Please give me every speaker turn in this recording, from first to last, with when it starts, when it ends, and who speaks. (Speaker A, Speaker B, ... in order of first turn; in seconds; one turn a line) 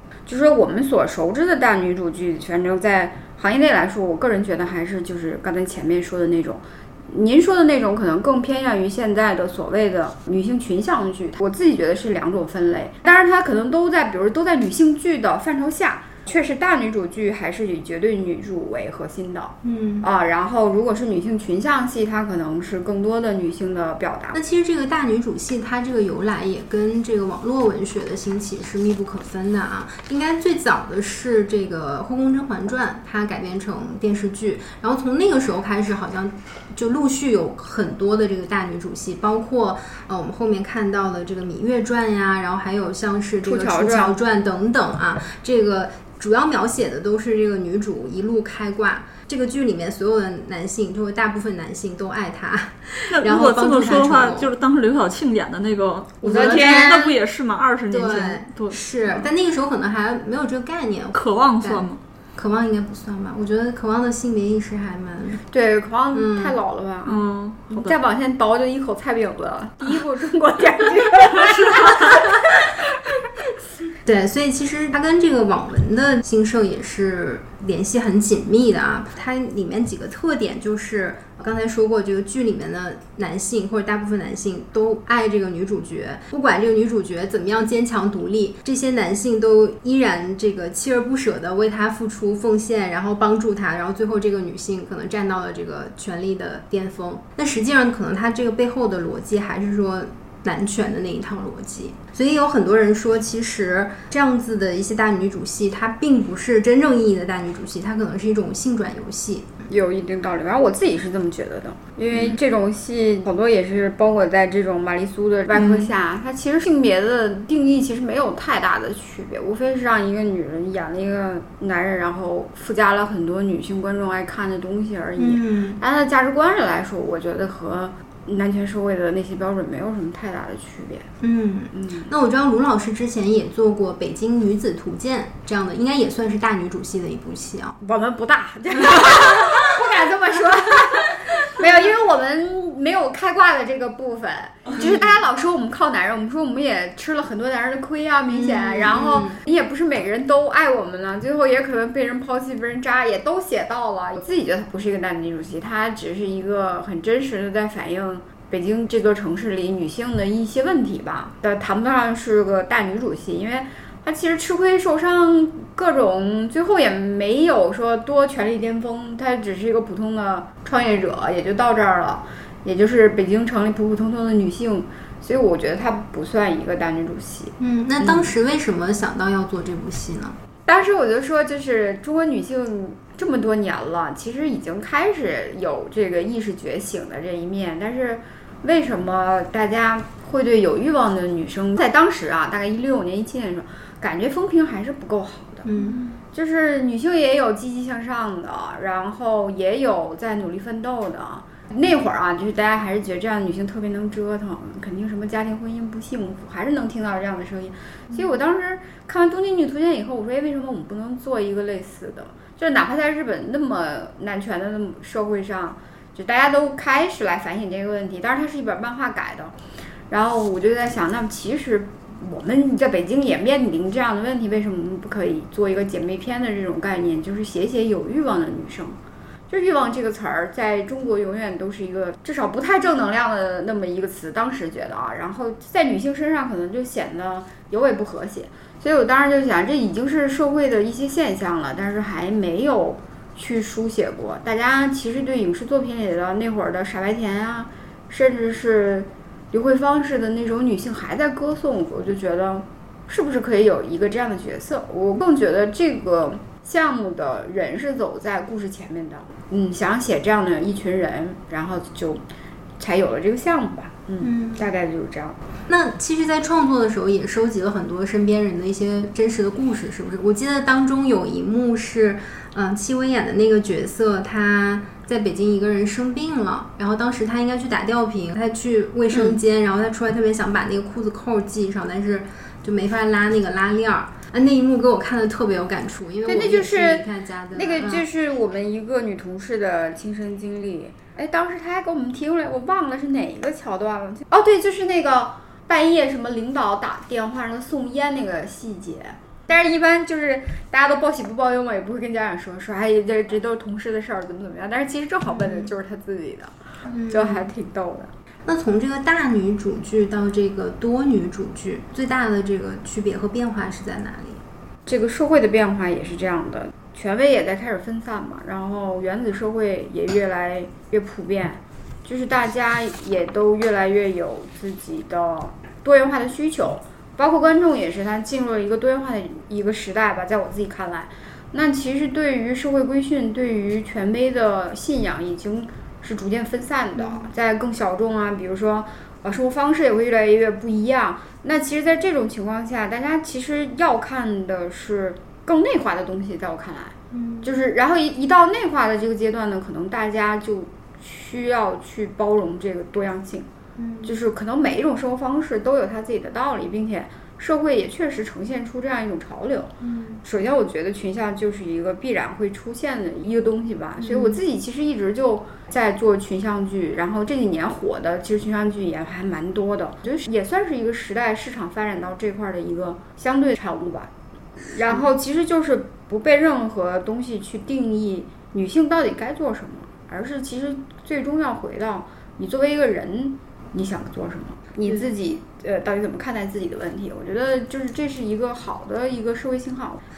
Speaker A: 0.2-24.4
Speaker B: 19.6-20.1
Speaker B: 24.3-54.5
Speaker A: 43.4-44.2
Speaker C: 53.1-58.8
Speaker B: 56.2-57.2
Speaker A: 56.2-57.0
Speaker B: 57.9-65.4
Speaker C: 61.1-62.0
Speaker A: 65.5-72.6
Speaker B: 66.1-66.6
Speaker C: 67.1-67.9
Speaker B: 71.5-72.2
Speaker B: 74.0-109.5
Speaker A: 109.7-131.1
Speaker B: 115.5-115.9
Speaker B: 125.2-125.8
Speaker B: 131.2-137.8
Speaker A: 131.7-132.1
Speaker A: 137.8-178.3
Speaker B: 144.8-145.1
Speaker B: 148.3-149.4
Speaker B: 177.6-180.4
Speaker A: 180.7-195.7
Speaker B: 195.6-196.1
Speaker A: 196.3-219.5
Speaker B: 208.1-208.4
Speaker A: 220.1-229.0
Speaker A: 229.5-262.2
Speaker A: 262.8-265.4
Speaker B: 264.2-264.7
Speaker B: 265.7-288.0
Speaker A: 286.2-306.6
Speaker B: 305.3-305.7
Speaker B: 306.9-307.5
Speaker A: 307.1-308.1
Speaker B: 308.5-314.4
Speaker A: 314.9-353.5
Speaker B: 337.0-337.2
Speaker B: 347.1-347.5
Speaker B: 353.8-354.1
Speaker A: 354.0-359.7
Speaker B: 359.8-360.2
Speaker A: 360.2-374.1
Speaker B: 364.0-364.4
Speaker A: 374.6-390.0